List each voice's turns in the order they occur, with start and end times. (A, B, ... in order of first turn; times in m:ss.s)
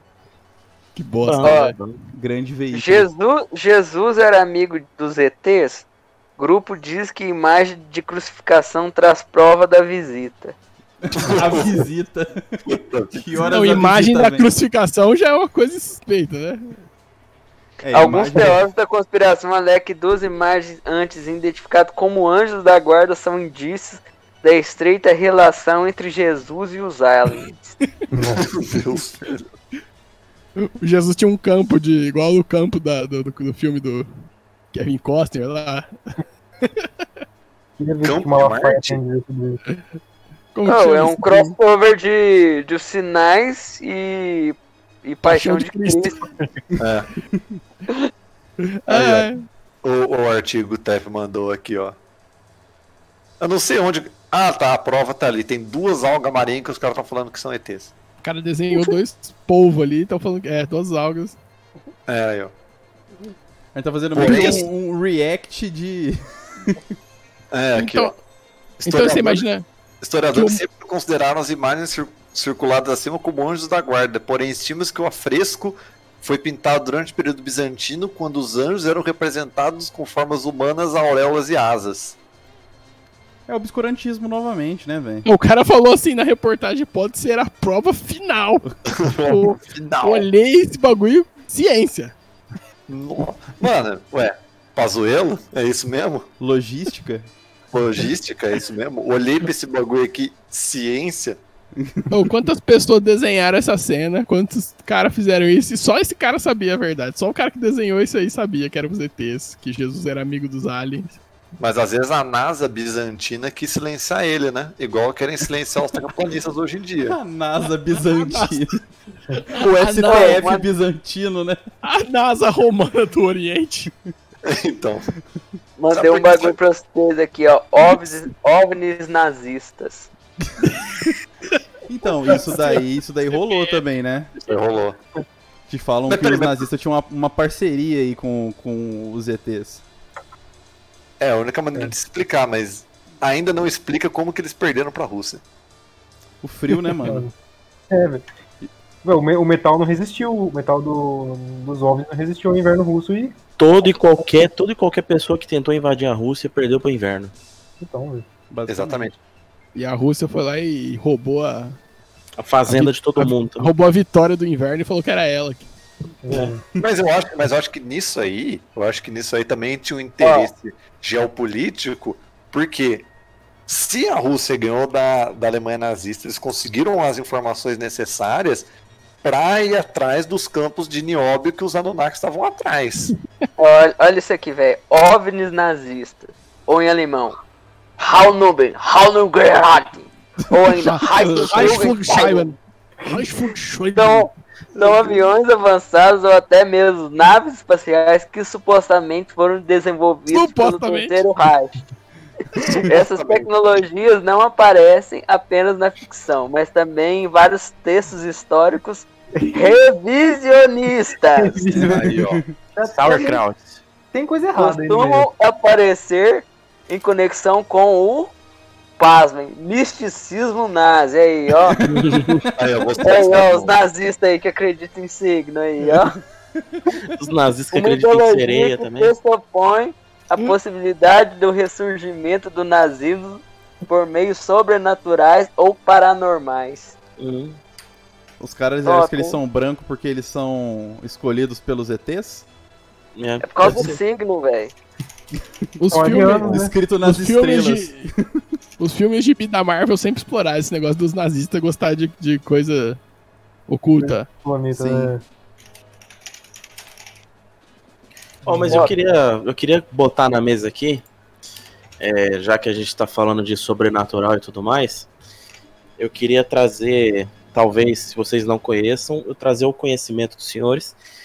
0:01.0-0:01.7 A
0:01.2-0:02.0 B
0:01.4-0:01.7 C
0:02.1-0:03.1 D
0:02.7-0:05.8 C
0:06.4-0:10.5 C
0:11.0-0:12.6 D
0:11.1-0:11.8 E
0:12.7-0:13.4 E
0:13.1-0:14.5 D
0:13.5-0:16.8 A
0:17.8-0:18.6 D
0:17.9-0:27.7 C
0:28.1-0:28.5 F
0:28.4-0:29.4 E
0:30.6-0:34.1 A
0:34.7-0:35.9 A
0:37.8-0:39.6 F
0:38.0-0:39.0 E
0:40.5-0:41.5 A
0:40.6-0:46.2 C
0:45.2-0:46.2 A
0:46.8-0:47.1 E
0:48.6-0:49.4 A
0:48.9-0:49.3 E
0:49.8-0:52.0 E
0:53.4-0:57.9 E
0:58.2-1:01.4 A
1:02.1-1:02.5 E
1:03.7-1:06.9 D
1:04.1-1:04.7 E
1:07.5-1:08.1 E
1:07.8-1:08.1 A
1:08.8-1:09.4 E
1:08.8-1:09.6 A
1:10.0-1:22.2 E
1:10.3-1:10.6 A
1:23.5-1:25.3 D
1:25.2-1:28.6 A
1:28.9-1:30.3 E
1:29.2-1:32.1 A
1:32.9-1:36.3 E
1:36.4-1:37.3 D
1:37.7-1:41.4 E
1:41.8-1:42.3 D
1:42.1-1:51.1 A
1:51.6-1:57.2 E
1:57.0-1:58.8 D
1:59.5-2:01.6 D
1:59.5-2:00.4 A
2:00.0-2:00.6 C
2:01.8-2:03.9 A
2:04.4-2:05.1 E
2:05.8-2:10.1 C
2:05.9-2:06.6 E
2:11.9-2:14.3 D
2:14.4-2:15.0 E
2:15.7-2:19.8 D
2:16.1-2:16.6 E
2:21.2-2:25.4 E
2:26.4-2:27.3 D
2:27.0-2:27.3 F
2:27.9-2:28.2 F
2:29.0-2:33.3 F
2:33.6-2:37.3 B
2:37.8-2:38.2 F
2:38.5-2:39.1 D
2:38.7-2:39.1 E
2:39.7-2:41.8 A
2:42.4-2:43.7 B
2:42.7-2:45.7 A
2:46.2-2:46.6 F
2:46.8-2:53.1 E
2:50.2-2:50.5 C
2:53.7-2:58.7 E
2:59.2-3:03.1 E
3:03.6-3:07.4 C
3:08.0-3:12.5 C
3:10.7-3:14.3 A
3:13.9-3:21.7 C
3:20.3-3:21.2 A
3:22.6-3:23.5 E
3:22.7-3:31.8 C
3:31.4-3:32.0 F
3:31.8-3:32.5 D
3:31.8-3:32.4 E
3:32.7-3:33.4 F
3:32.9-3:33.8 B
3:34.1-3:35.3 F
3:34.5-3:38.3 C
3:39.0-3:41.8 C
3:41.8-3:42.4 D
3:41.9-3:42.3 B
3:42.5-3:43.8 E
3:43.0-3:46.2 C
3:46.6-3:46.9 D
3:47.2-3:49.1 B
3:47.7-3:56.9 C
3:57.2-3:57.6 B
3:58.4-4:02.4 D
3:58.8-3:59.4 C
4:03.2-4:04.0 B
4:03.4-4:04.7 C
4:05.6-4:08.4 D
4:05.8-4:08.1 A
4:05.9-4:06.7 F
4:08.8-4:13.0 A
4:13.7-4:14.3 A
4:14.0-4:15.2 F
4:14.7-4:15.1 D
4:18.4-4:18.9 F
4:18.4-4:21.0 B
4:22.0-4:25.1 B
4:26.0-4:31.0 B